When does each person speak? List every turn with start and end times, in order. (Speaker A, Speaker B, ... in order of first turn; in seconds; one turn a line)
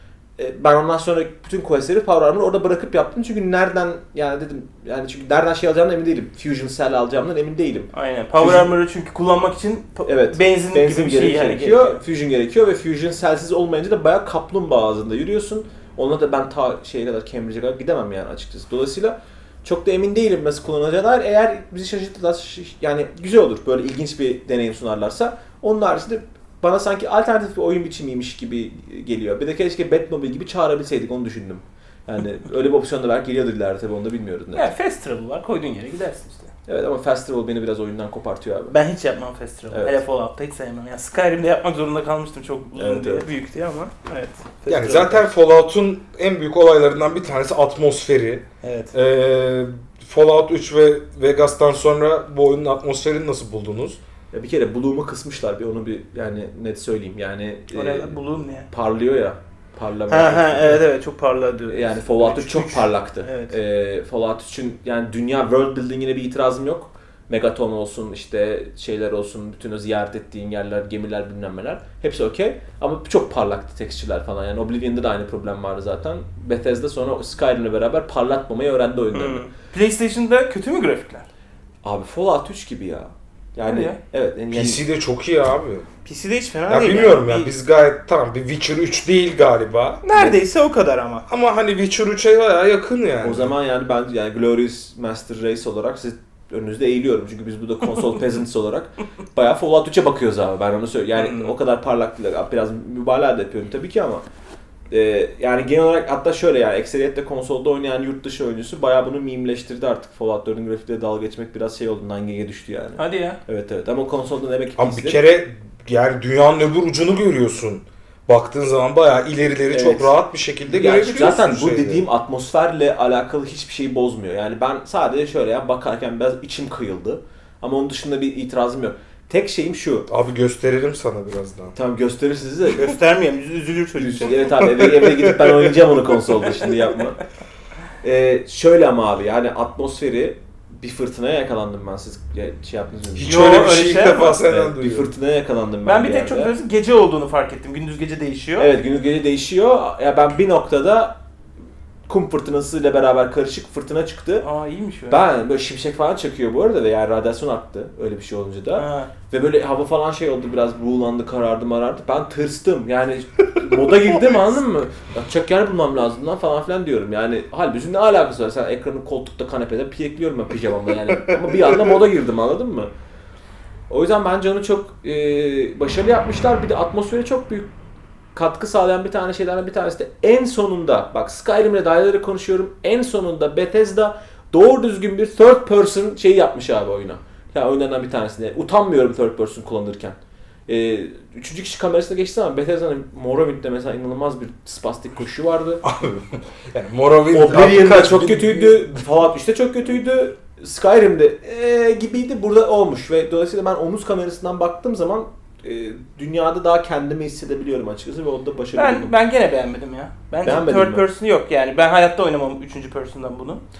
Speaker A: 0.4-8.7
Speaker B: 7.9-12.0
Speaker A: 10.1-34.7
Speaker B: 34.5-36.5
Speaker A: 36.7-38.8
Speaker B: 38.7-45.2
Speaker A: 39.7-40.0
Speaker A: 42.8-43.3
Speaker C: 44.7-54.0
Speaker B: 48.6-48.9
Speaker A: 54.3-58.2
Speaker B: 57.7-58.7
Speaker A: 58.7-60.8
Speaker B: 60.1-63.5
Speaker A: 61.7-79.5
Speaker B: 79.1-81.3
Speaker A: 81.8-84.8
Speaker B: 83.7-84.0
Speaker C: 84.5-85.9
Speaker B: 86.0-87.5
Speaker C: 86.7-90.0
Speaker B: 90.0-91.2
Speaker C: 91.3-93.5
Speaker A: 93.2-104.2
Speaker B: 101.2-101.5
Speaker A: 104.9-115.2
Speaker B: 113.0-113.4
Speaker C: 114.8-122.0
Speaker A: 119.7-130.1
Speaker C: 130.1-131.7
Speaker A: 131.8-132.9
Speaker B: 132.7-134.5
Speaker A: 134.0-137.2
Speaker C: 134.9-135.2
Speaker A: 138.0-143.4
Speaker C: 143.2-145.1
Speaker B: 143.2-144.4
Speaker A: 144.4-146.5
Speaker B: 145.8-148.7
Speaker A: 148.6-151.2
Speaker A: 152.1-154.4
Speaker B: 154.4-155.2
Speaker A: 155.1-172.9
Speaker B: 158.8-159.1
Speaker A: 173.9-177.7
Speaker A: 178.3-190.2
Speaker A: 190.7-195.8
Speaker C: 195.8-198.9
Speaker A: 197.3-209.1
Speaker B: 208.7-213.6
Speaker A: 210.4-211.1